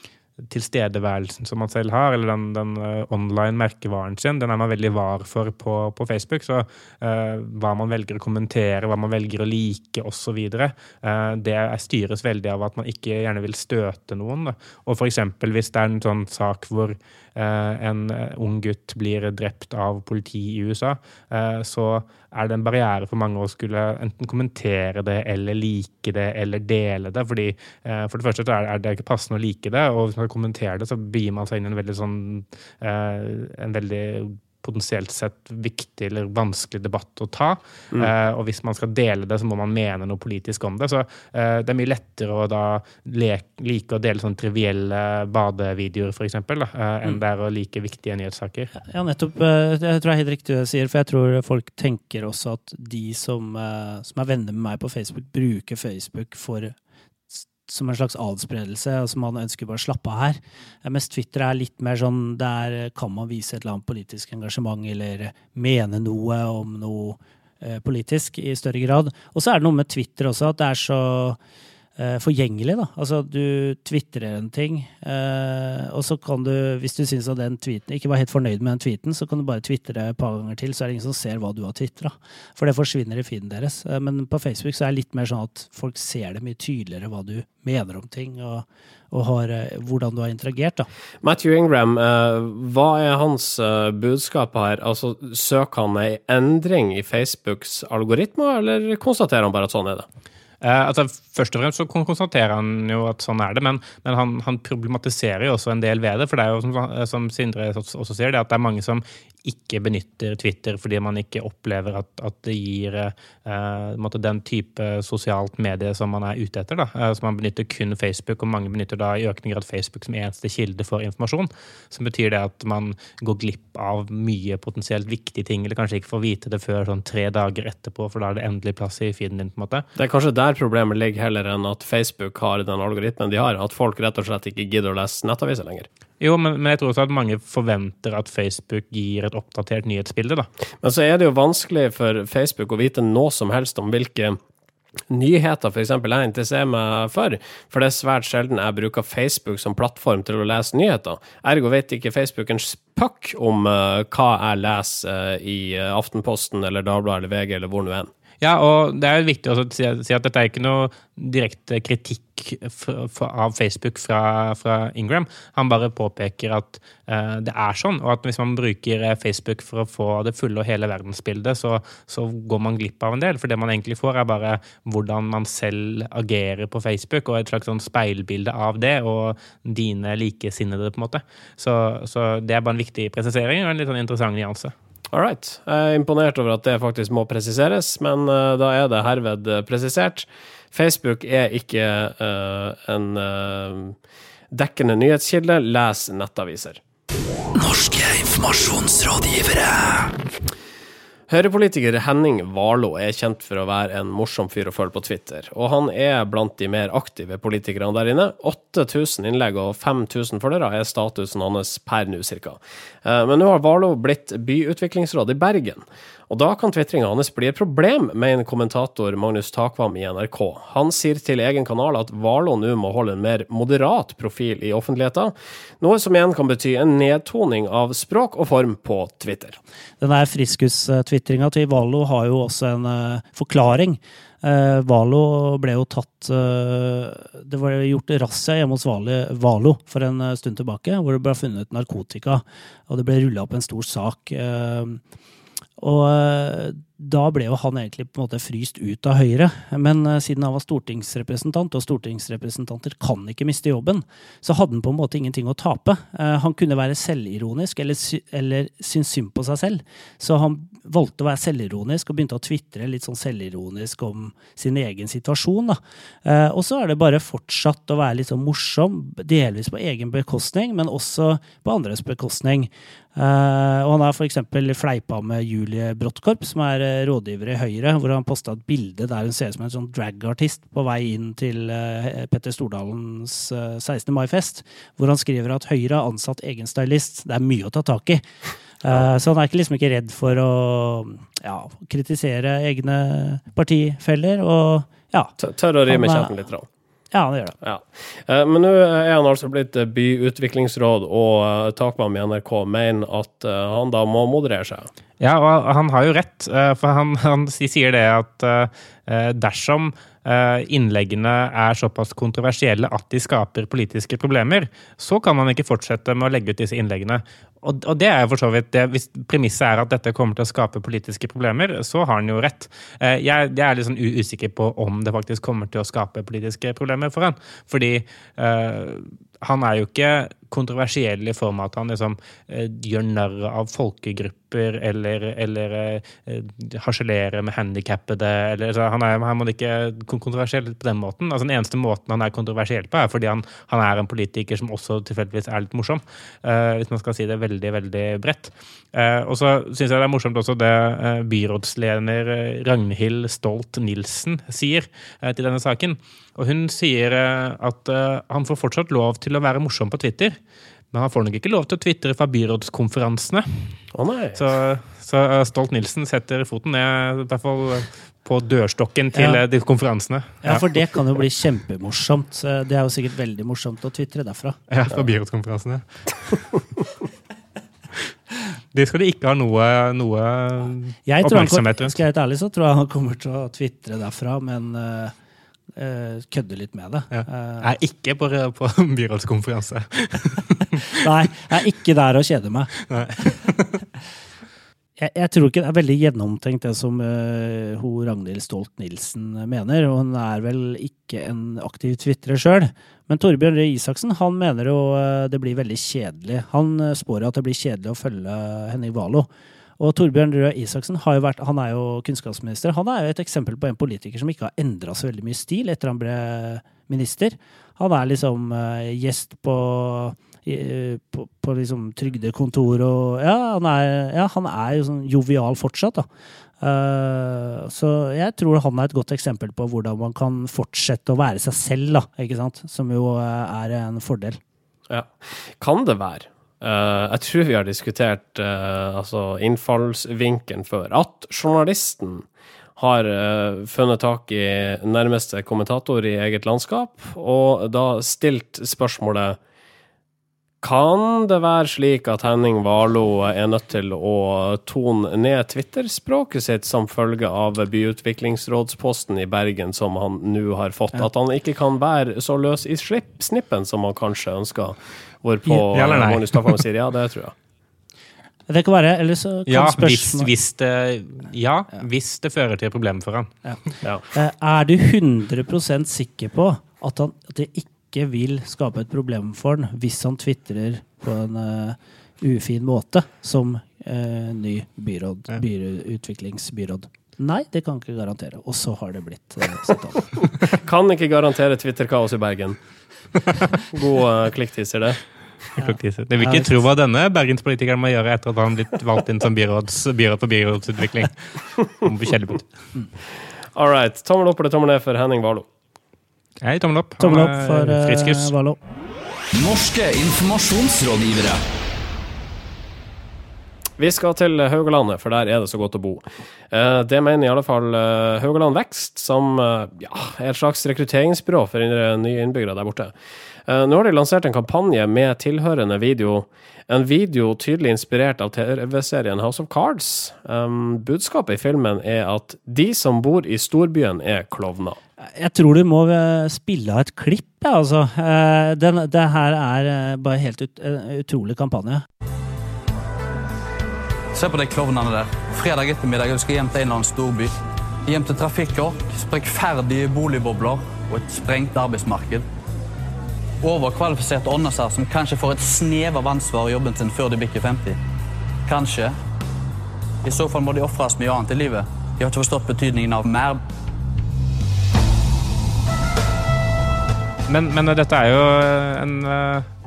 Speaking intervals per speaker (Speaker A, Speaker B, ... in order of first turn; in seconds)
Speaker A: 0.5-48.7, 100.6-129.9, 136.2-140.5, 158.4-184.7, 305.2-360.4, 360.9-363.8, 364.4-370.7, 374.7-376.5, 378.7-381.9, 387.1-391.1, 392.9-393.8, 465.5-466.6, 469.5-473.4, 495.6-502.5, 506.4-508.3, 567.3-569.5
Speaker B: 48.8-56.8, 57.3-71.4, 72.0-90.9, 230.0-245.0, 245.8-288.2, 288.8-295.3, 295.9-296.3, 297.1-297.6, 369.1-369.4, 370.4-374.6, 381.1-385.1, 385.8-387.7, 390.9-392.8, 395.0-409.3, 409.8-426.1, 426.6-434.4, 468.5-470.3, 474.1-490.2, 495.6-496.6, 507.0-508.6, 535.0-541.8
Speaker C: 91.2-100.1, 130.0-135.9, 140.8-144.4, 145.1-158.1, 185.1-194.0, 194.5-196.8, 201.3-229.6, 295.4-296.7, 297.6-304.9, 363.9-364.4, 434.9-442.3, 442.8-449.4, 450.6-467.4, 490.5-492.6, 493.7-495.0, 503.5-505.5, 513.8-522.9, 523.5-534.8
Speaker D: 197.5-200.2, 509.3-511.4
Speaker E: 544.1-547.3, 547.9-552.3, 553.4-557.8, 558.5-559.0, 560.0-563.4